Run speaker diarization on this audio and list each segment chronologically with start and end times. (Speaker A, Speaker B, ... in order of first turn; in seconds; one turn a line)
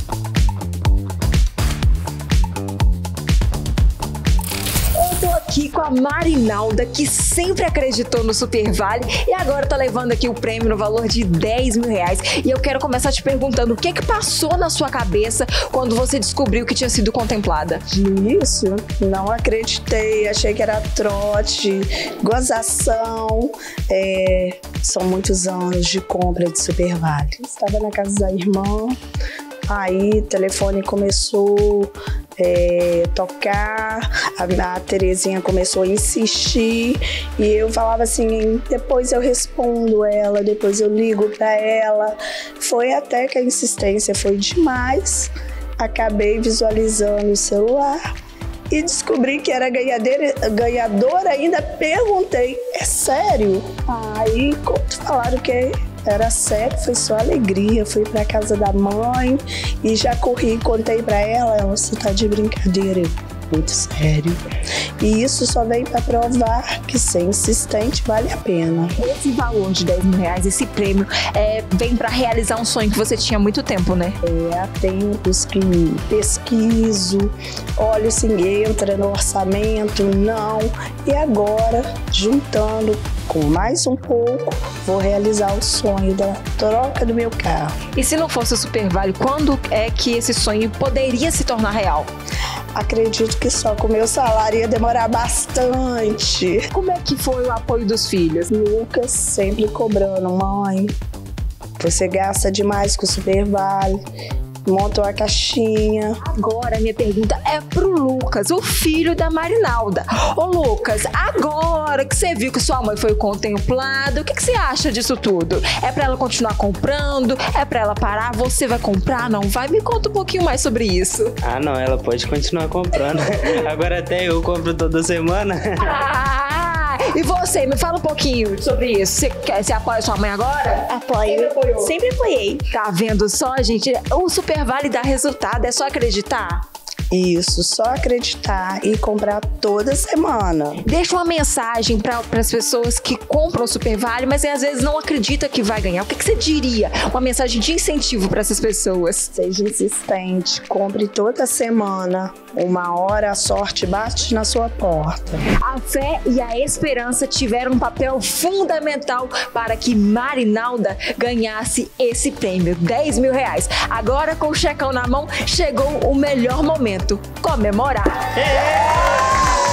Speaker A: 5.0-17.8
Speaker B: 17.9-29.0
Speaker B: 29.7-48.0
Speaker B: 48.7-64.4
Speaker B: 65.0-68.9
Speaker A: 69.0-74.2
Speaker B: 74.2-87.7
Speaker A: 88.0-92.1
Speaker B: 92.8-96.6
Speaker A: 96.7-98.5
Speaker B: 98.5-100.9
Speaker B: 101.8-104.0
Speaker B: 104.7-106.2
Speaker A: 106.2-121.3
Speaker C: 121.4-126.0
Speaker A: 125.8-131.9
Speaker B: 131.0-131.3
Speaker A: 132.7-136.7
Speaker B: 137.1-140.8
Speaker A: 140.8-149.3
Speaker B: 149.3-155.4
Speaker A: 155.6-168.3
Speaker C: 168.5-169.2